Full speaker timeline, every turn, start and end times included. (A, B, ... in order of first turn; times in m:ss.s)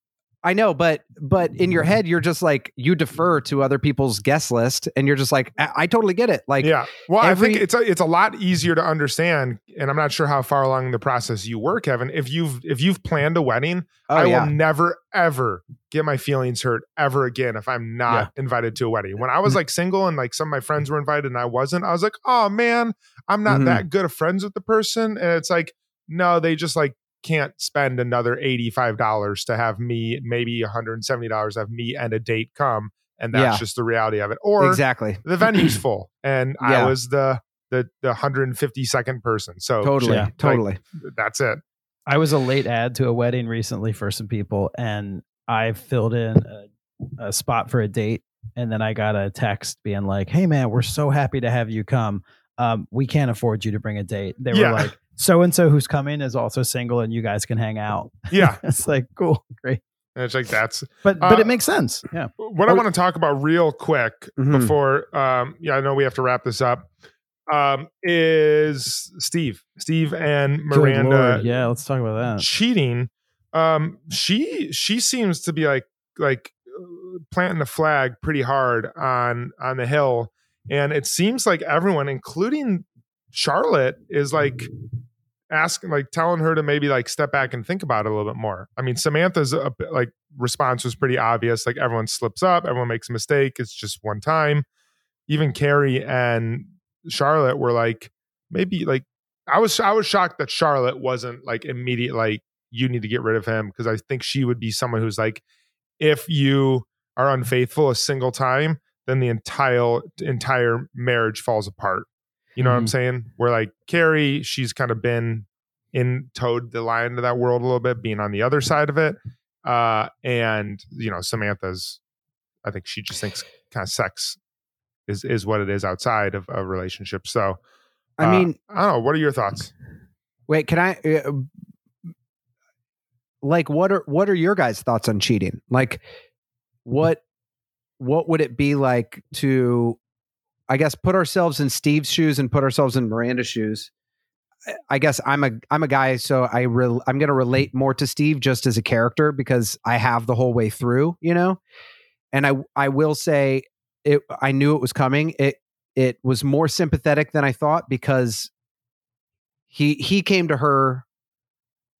0:00.4-0:07.6 A
0:06.6-0:41.6 B
0:14.1-0:14.5 A
0:23.4-0:23.8 A
0:33.3-0:33.6 A
0:34.6-0:35.7 A
0:36.6-0:36.9 A
0:39.8-0:40.8 A
0:40.0-0:40.3 C
0:42.1-0:46.7 C
0:47.2-0:59.8 C
0:54.5-0:54.9 B
0:58.3-0:58.6 B
1:00.2-1:01.6 B
1:01.0-1:02.8 C
1:02.4-1:06.9 B
1:04.4-1:04.7 A
1:07.5-1:11.4 B
1:10.7-1:12.4 C
1:12.4-1:24.7 B
1:25.5-1:34.6 B
1:35.3-1:45.4 B
1:46.0-1:52.1 B
1:52.6-2:02.0 B
1:52.6-1:52.9 C
2:02.6-2:04.4 B
2:05.1-2:07.6 B
2:08.2-2:08.6 A
2:08.2-2:09.7 B
2:10.5-2:11.5 A
2:13.4-2:16.0 A
2:16.8-2:17.2 A
2:18.0-2:20.0 A
2:20.7-2:23.9 A
2:24.7-2:31.6 A
2:32.3-2:38.5 A
2:39.7-2:41.0 A